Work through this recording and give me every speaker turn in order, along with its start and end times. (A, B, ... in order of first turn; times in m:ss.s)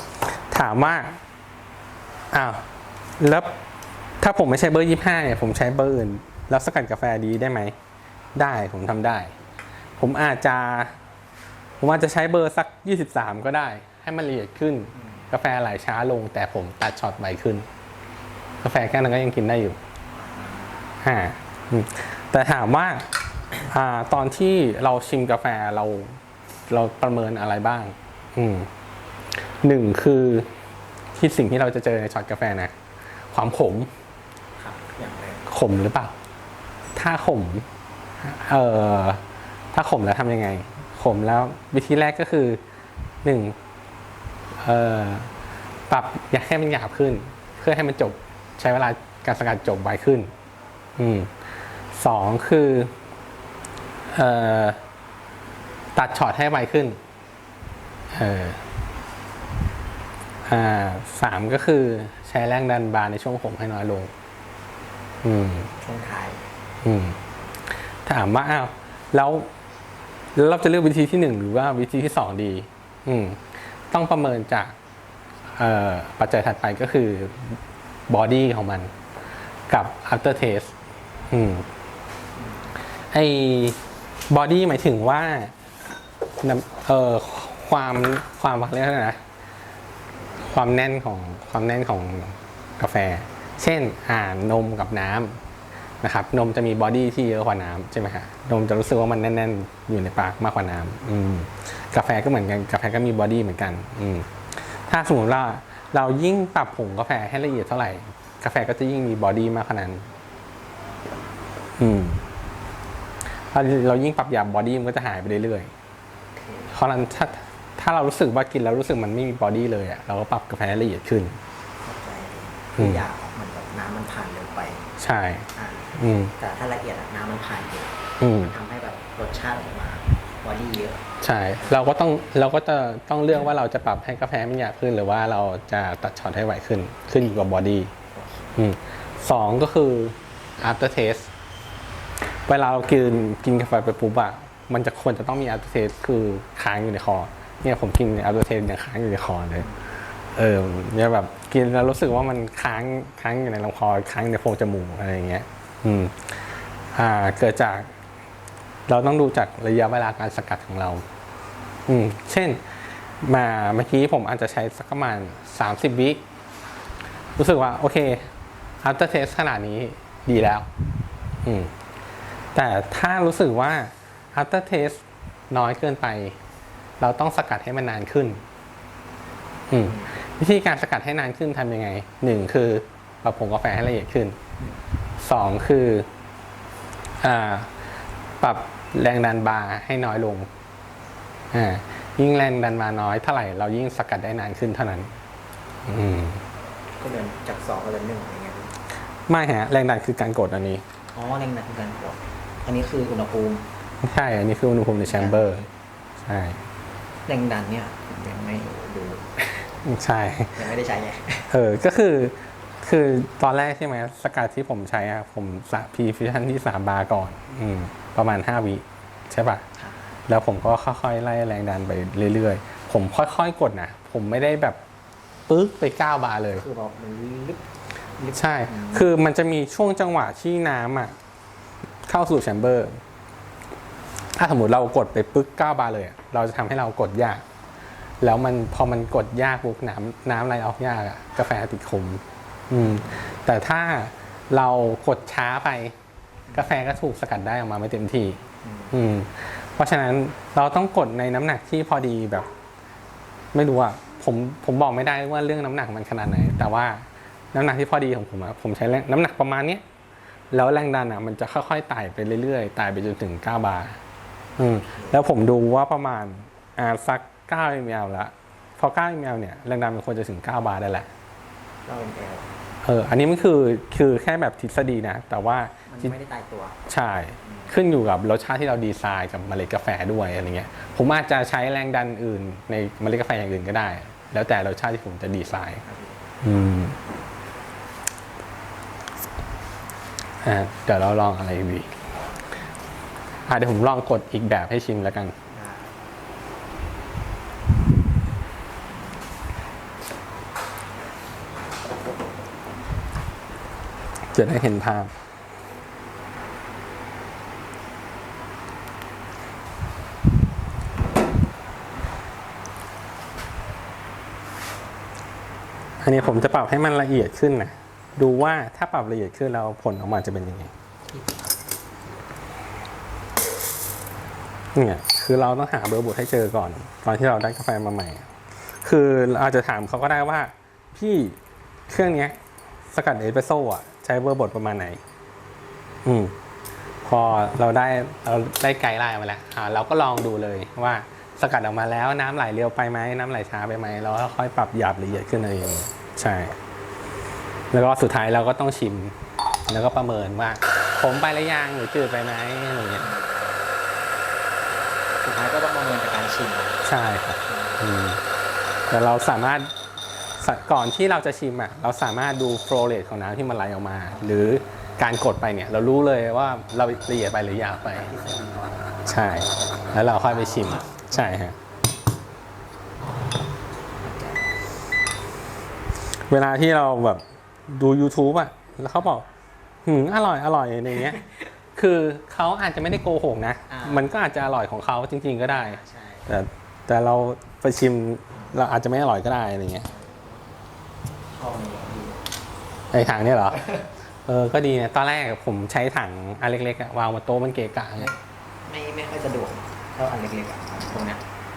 0:00.2-0:01.2 A
0:02.3-0:02.7 A
0:03.2-0:03.5 A
0:04.2-0:07.8 A
0:08.3-0:09.4 A
0:10.0-0:11.0 A
0:11.8-0:17.7 A
0:14.9-0:15.3 B
0:18.6-0:19.8 A
0:20.2-0:20.7 B
0:21.0-0:23.1 A
0:23.6-0:28.7 A
0:29.6-0:30.5 A
0:31.2-0:32.7 A
0:33.3-0:33.9 A
0:34.6-0:35.4 B
0:35.5-0:36.1 A
0:36.9-0:37.7 A
0:38.2-0:42.6 A
0:43.2-0:43.6 A
0:44.6-0:45.3 A
0:45.9-0:50.3 A
0:51.0-0:51.3 A
0:51.9-0:52.9 A
0:54.1-0:54.8 A
0:55.9-0:57.0 A
0:58.1-0:58.6 A
1:00.4-1:04.1 A
1:05.2-1:05.7 A
1:05.8-1:06.4 B
1:06.8-1:07.2 A
1:07.7-1:09.5 A
1:10.3-1:14.8 A
1:15.5-1:18.9 A
1:19.7-1:20.7 A
1:21.3-1:21.7 A
1:22.4-1:22.7 B
1:23.1-1:25.5 A
1:26.4-1:29.2 A
1:30.5-1:35.4 A
1:36.0-1:50.1 A
1:51.8-1:52.2 A
1:53.5-1:55.7 A
1:56.3-1:56.7 B
1:56.7-2:01.4 A
2:01.8-2:04.9 B
2:02.8-2:03.0 A
2:05.0-2:06.3 A
2:05.6-2:11.0 B
2:08.2-2:08.5 A
2:11.2-2:17.9 A
2:18.1-2:18.5 B
2:18.6-2:21.3 A
2:22.4-2:29.7 A
2:30.3-2:37.9 A
2:38.9-2:41.0 A
2:41.9-2:46.2 A
2:47.4-2:50.7 A
2:51.4-2:51.7 A
2:52.5-2:56.4 A
2:57.0-2:58.4 A
2:59.7-3:04.4 A
2:59.8-3:00.1 B
3:05.2-3:06.1 A
3:07.2-3:07.8 A
3:08.4-3:10.5 A
3:11.5-3:15.1 A
3:15.8-3:16.4 A
3:17.0-3:18.7 B
3:19.3-3:20.8 A
3:21.1-3:23.7 B
3:24.0-3:25.7 A
3:25.1-3:25.5 B
3:26.2-3:26.6 A
3:27.3-3:29.7 B
3:29.8-3:30.6 A
3:30.5-3:31.5 B
3:31.5-3:39.6 A
3:39.8-3:40.1 B
3:40.3-3:44.8 A
3:45.5-3:46.6 A
3:46.5-3:47.6 B
3:48.2-3:49.1 B
3:48.3-3:51.2 A
3:52.0-3:53.0 A
3:54.3-3:57.4 A
3:58.2-4:05.9 A
4:02.8-4:03.1 B
4:06.5-4:12.5 A
4:08.6-4:09.0 B
4:13.5-4:19.8 A
4:20.5-4:24.0 A
4:24.6-4:31.1 A
4:24.8-4:25.2 B
4:31.8-4:32.5 B
4:32.8-4:36.1 A
4:35.9-4:36.8 B
4:36.9-4:45.8 A
4:37.4-4:37.7 B
4:45.8-4:46.3 B
4:46.4-4:47.0 A
4:50.4-4:52.0 A
4:53.5-4:55.4 A
4:55.5-4:56.0 B
5:04.3-5:05.1 A
5:16.0-5:20.7 A
5:21.1-5:21.6 B
5:24.7-5:32.4 A
5:32.9-5:35.0 A
5:36.0-5:36.4 A
5:37.0-5:46.6 A
5:47.7-5:49.2 A
5:49.7-5:53.1 A
5:53.0-5:53.6 B
5:55.2-5:56.8 B
5:56.8-5:58.2 A
5:57.4-5:57.9 B
5:58.9-5:59.7 A
6:00.4-6:08.1 A
6:07.9-6:08.9 B
6:09.0-6:11.6 A
6:10.1-6:11.4 B
6:14.0-6:14.6 B
6:16.1-6:19.2 A
6:19.8-6:21.2 A
6:21.0-6:21.4 B
6:21.7-6:29.9 A
6:23.7-6:24.1 B
6:25.4-6:26.3 B
6:29.8-6:30.5 B
6:31.3-6:32.2 B
6:32.9-6:33.6 A
6:33.5-6:33.9 B
6:34.2-6:38.1 A
6:38.0-6:41.2 B